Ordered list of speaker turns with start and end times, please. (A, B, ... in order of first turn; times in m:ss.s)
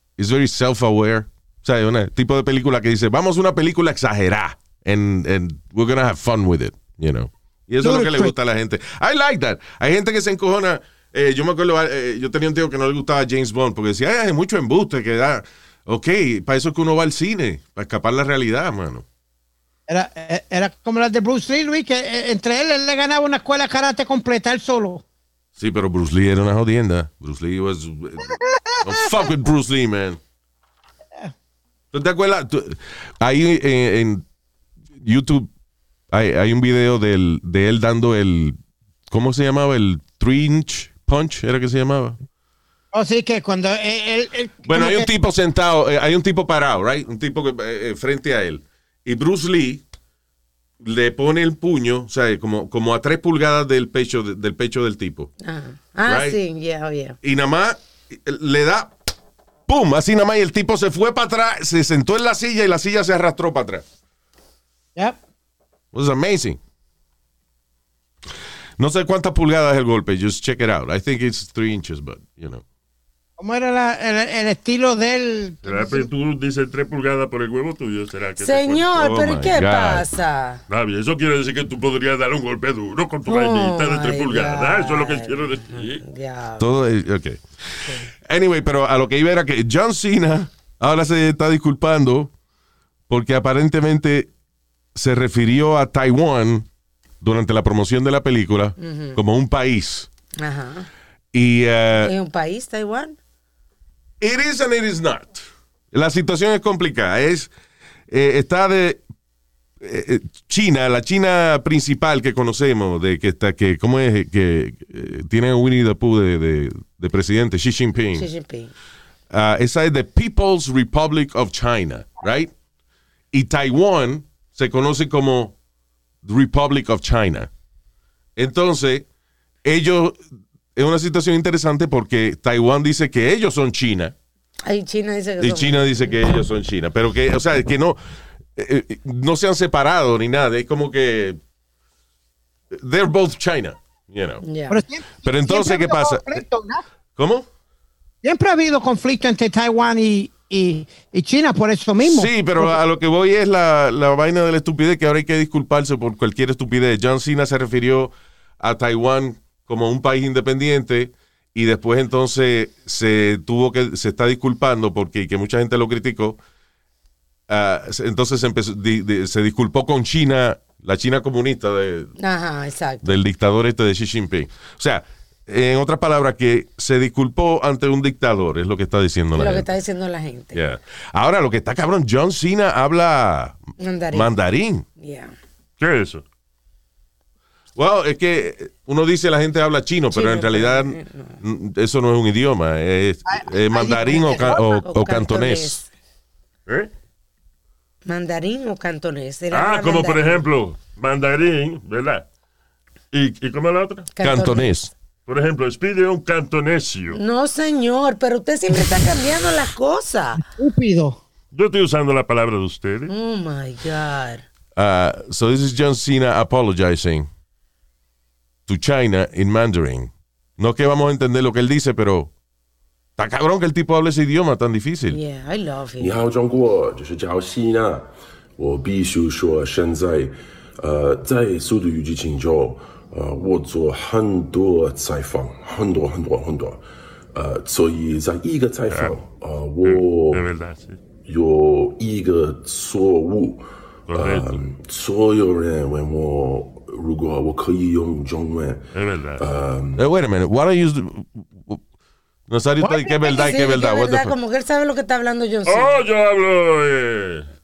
0:00.2-0:19.0 A
0:07.8-0:08.3 B
0:19.9-0:25.0 B
0:25.6-0:30.2 A
0:31.9-0:34.2 A
0:35.0-0:35.5 A
0:36.1-0:38.6 A
0:39.1-0:42.2 A
0:42.9-0:45.1 B
0:44.6-0:49.8 A
0:50.8-0:55.3 A
0:55.4-0:57.2 C
0:56.0-0:56.4 A
0:57.2-0:58.9 A
0:59.7-1:03.8 A
1:05.9-1:06.6 A
1:08.8-1:12.6 A
1:13.4-1:16.1 B
1:15.6-1:18.9 D
1:18.4-1:20.6 C
1:19.0-1:20.0 A
1:20.7-1:26.0 D
1:23.3-1:26.7 C
1:26.6-1:27.4 A
1:27.8-1:28.1 C
1:28.1-1:32.3 A
1:33.1-1:34.3 A
1:34.9-1:36.7 A
1:37.2-1:40.1 A
1:38.8-1:39.2 C
1:40.4-1:40.9 C
1:41.3-1:42.1 A
1:42.0-1:43.2 C
1:44.2-1:47.5 A
1:48.1-1:49.0 A
1:49.8-1:58.3 A
1:58.1-1:58.7 C
1:59.3-2:02.5 A
2:03.3-2:05.5 A
2:06.2-2:07.5 A
2:08.4-2:09.0 A
2:09.6-2:10.2 A
2:10.8-2:14.1 A
2:14.6-2:16.2 C
2:15.4-2:18.0 A
2:18.6-2:21.4 A
2:22.7-2:24.4 A
2:24.4-2:24.8 C
2:24.7-2:26.8 B
2:25.2-2:26.4 A
2:27.2-2:27.5 A
2:28.2-2:32.7 B
2:32.0-2:46.4 A
2:47.5-2:52.1 A
2:52.2-2:53.2 C
2:53.0-2:59.6 A
2:59.3-3:00.6 C
3:00.5-3:03.6 A
3:03.8-3:04.3 C
3:04.1-3:04.8 A
3:05.0-3:05.3 C
3:05.8-3:06.2 D
3:07.8-3:15.8 A
3:10.1-3:11.4 C
3:13.3-3:14.6 B
3:13.8-3:15.9 C
3:18.0-3:20.4 C
3:19.5-3:22.2 D
3:23.1-3:24.1 D
3:24.1-3:24.8 C
3:24.2-3:24.9 A
3:25.3-3:27.2 D
3:27.1-3:30.4 C
3:30.5-3:31.2 B
3:31.5-3:33.1 D
3:33.1-3:34.4 C
3:34.8-3:37.3 A
3:38.7-3:42.3 A
3:43.2-3:45.2 A
3:45.1-3:46.1 C
3:46.0-3:56.8 E
3:57.3-4:00.4 E
3:58.9-3:59.2 D
3:59.8-4:01.0 D
4:01.2-4:08.8 E
4:04.1-4:04.6 D
4:08.9-4:09.4 D
4:09.4-4:10.0 E
4:10.0-4:11.8 A
4:12.5-4:14.3 A
4:13.1-4:16.0 C
4:15.6-4:17.5 D